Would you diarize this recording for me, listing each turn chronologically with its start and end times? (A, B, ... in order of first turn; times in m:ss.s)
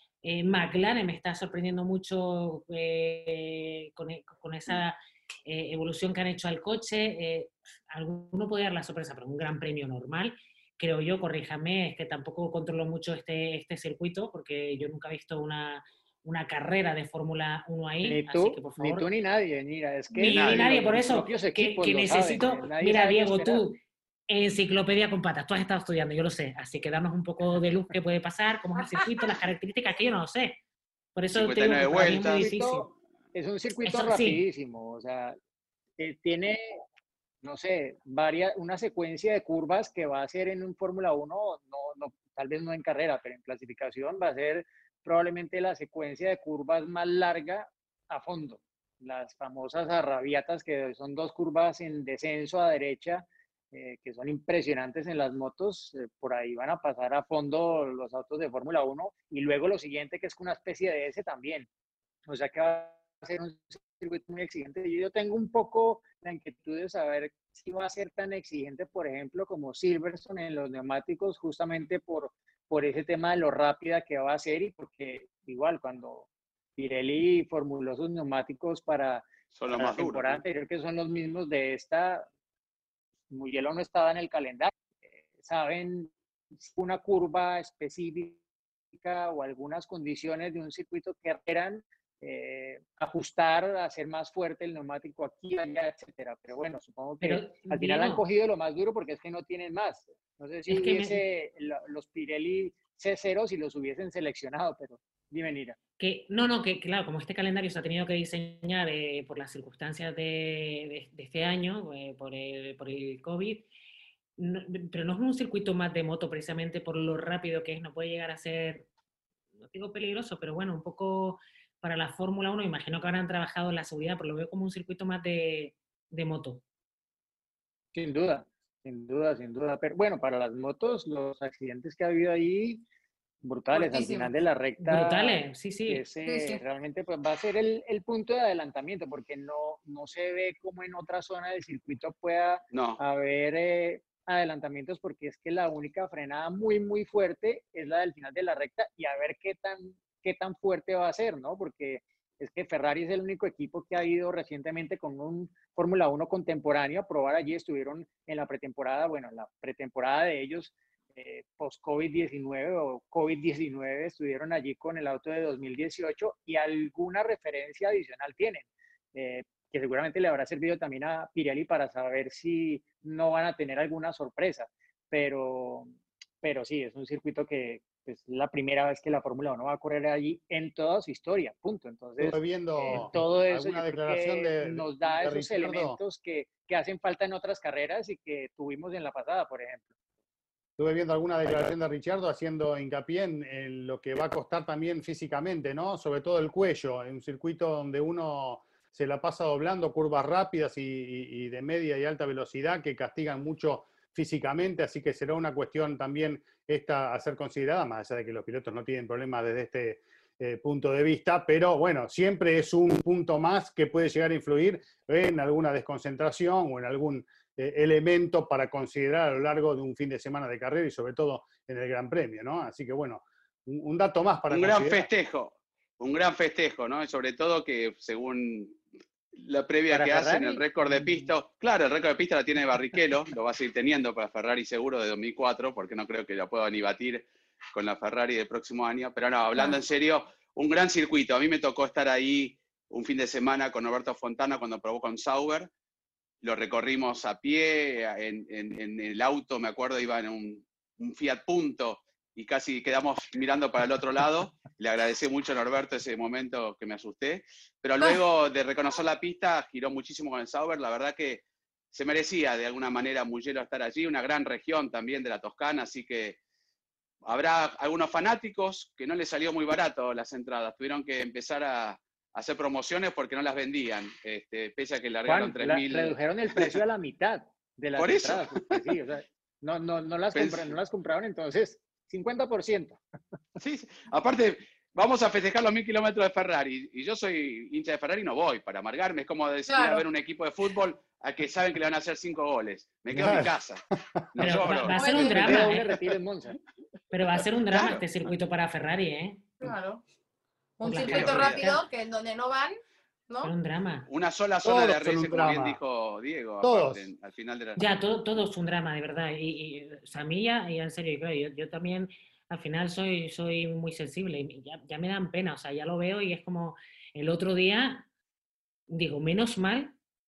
0:00.2-0:19.1 A
0:18.0-0:23.6 B
0:20.1-0:23.8 A
0:20.3-0:20.7 C
0:24.3-0:30.6 A
0:28.8-0:29.3 D
0:31.2-0:32.9 A
0:31.4-0:32.5 C
0:32.0-0:35.4 B
0:33.8-0:34.4 A
0:36.0-0:36.8 B
0:37.4-1:01.7 B
1:02.3-1:22.3 B
1:19.6-1:20.4 C
1:23.3-1:28.4 B
1:28.9-1:45.8 B
1:37.2-1:38.2 A
1:40.7-1:41.2 A
1:46.0-1:53.7 A
1:54.4-1:58.9 A
1:59.6-2:06.6 A
2:07.9-2:12.8 B
2:13.4-3:09.9 B
2:13.7-2:14.4 D
2:14.8-2:16.0 A
2:16.3-2:16.6 D
2:22.7-2:23.0 C
3:02.2-3:06.0 E
3:10.8-3:45.1 E
3:44.5-3:48.8 C
3:49.4-4:05.7 C
3:49.9-3:51.3 B
4:06.4-4:26.4 C
4:27.3-4:36.8 C
4:35.2-4:43.0 B
4:38.0-4:38.9 C
4:40.3-4:40.8 C
4:43.6-4:55.0 C
4:49.7-4:50.0 D
4:53.1-4:53.5 E
4:54.4-4:55.9 A
4:54.9-4:55.7 D
4:55.0-4:56.6 B
4:57.1-4:59.4 A
4:57.7-4:58.0 C
4:59.6-5:00.0 D
5:00.8-5:02.8 D
5:00.8-5:01.8 A
5:01.0-5:01.6 C
5:03.4-5:04.1 A
5:04.1-5:07.8 C
5:04.6-5:05.8 E
5:06.6-5:07.1 E
5:07.8-5:18.1 A
5:18.9-5:19.9 A